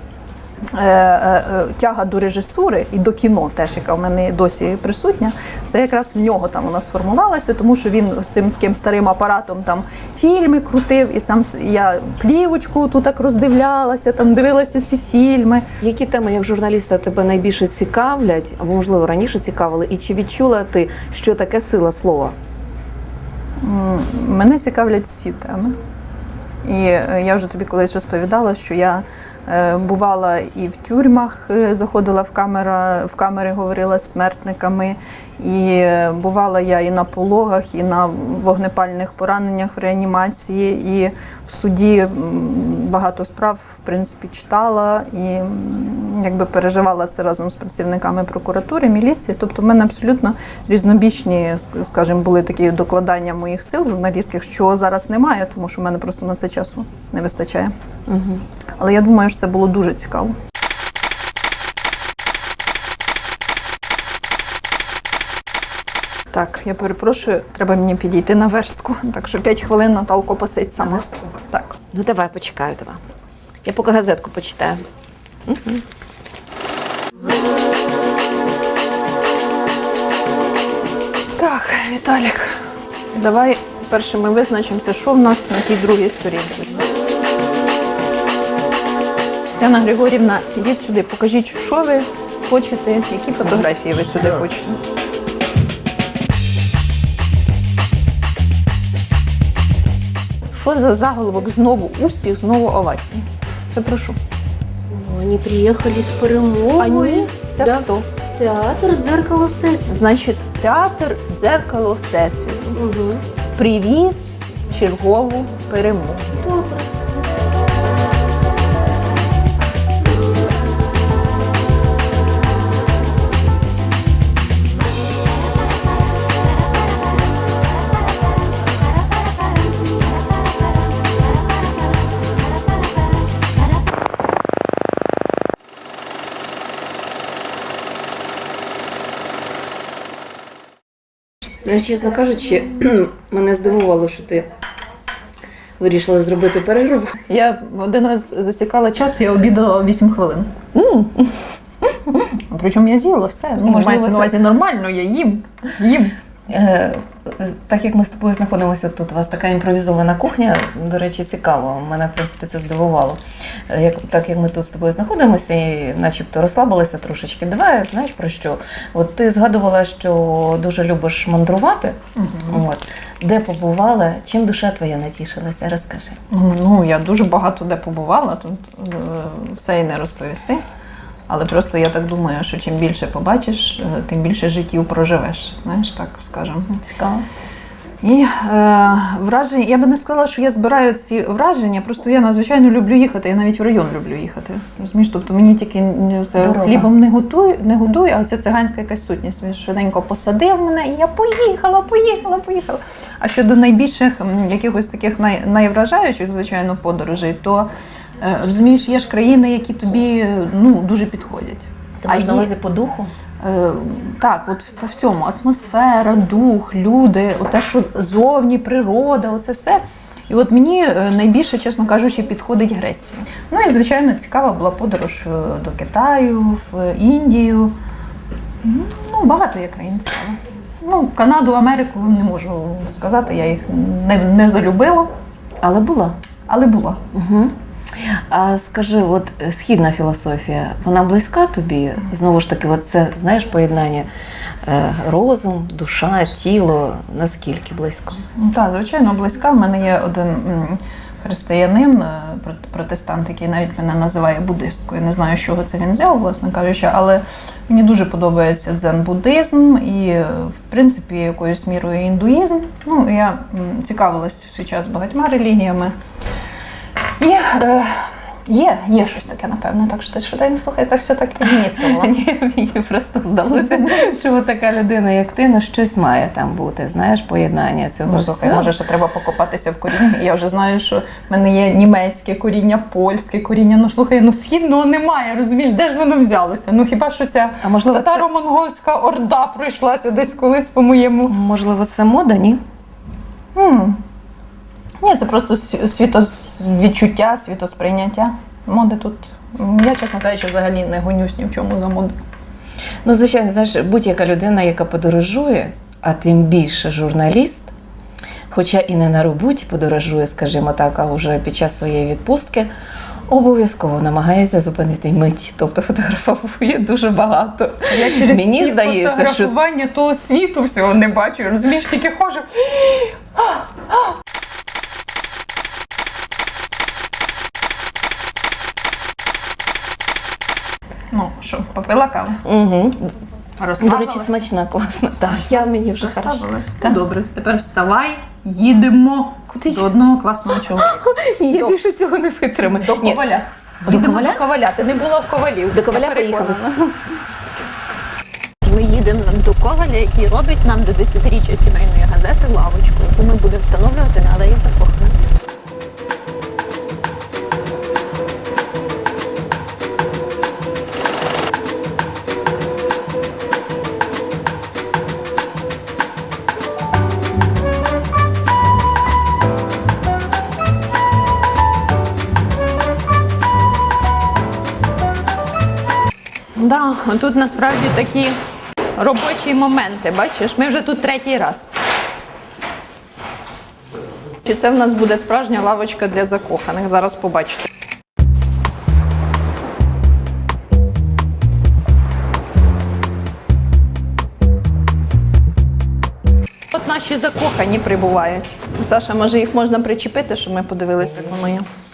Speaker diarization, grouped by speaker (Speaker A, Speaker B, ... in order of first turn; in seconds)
Speaker A: 0.7-15.7, 23.6-25.8, 26.6-57.7, 58.8-60.4, 66.3-71.8, 81.4-82.6, 83.1-86.8, 89.6-94.8, 100.5-104.2, 106.8-108.0, 109.9-112.8, 113.6-116.3, 147.3-150.5, 152.5-156.2, 172.2-172.6, 176.3-180.6, 181.3-186.7, 188.0-212.5, 213.4-227.8, 228.6-235.1, 236.5-237.0, 248.4-266.0, 267.2-272.1, 273.5-274.1, 278.1-291.4, 293.6-294.0, 295.0-302.1, 317.9-323.6, 331.1-332.4, 333.6-334.4, 335.3-340.9, 341.5-341.8, 342.6-347.0, 348.6-355.1, 376.6-378.4, 379.0-381.7, 384.4-387.7, 396.7-401.7
Speaker B: 15.8-22.4, 58.1-58.4, 71.9-73.0, 73.7-74.8, 75.5-75.8, 141.6-144.5, 145.8-147.2, 150.7-151.4, 153.6-154.4, 156.5-176.2, 186.7-187.2, 196.4-196.9, 212.0-213.1, 235.6-236.2, 237.1-244.1, 244.7-248.2, 271.7-278.7, 287.6-288.3, 291.3-292.6, 303.1-307.7, 308.5-312.7, 313.3-319.5, 332.4-333.1, 333.8-336.5, 339.6-339.9, 340.7-343.3, 343.8-344.4, 345.7-346.6
Speaker C: 104.9-109.9, 112.8-113.2, 116.4-116.8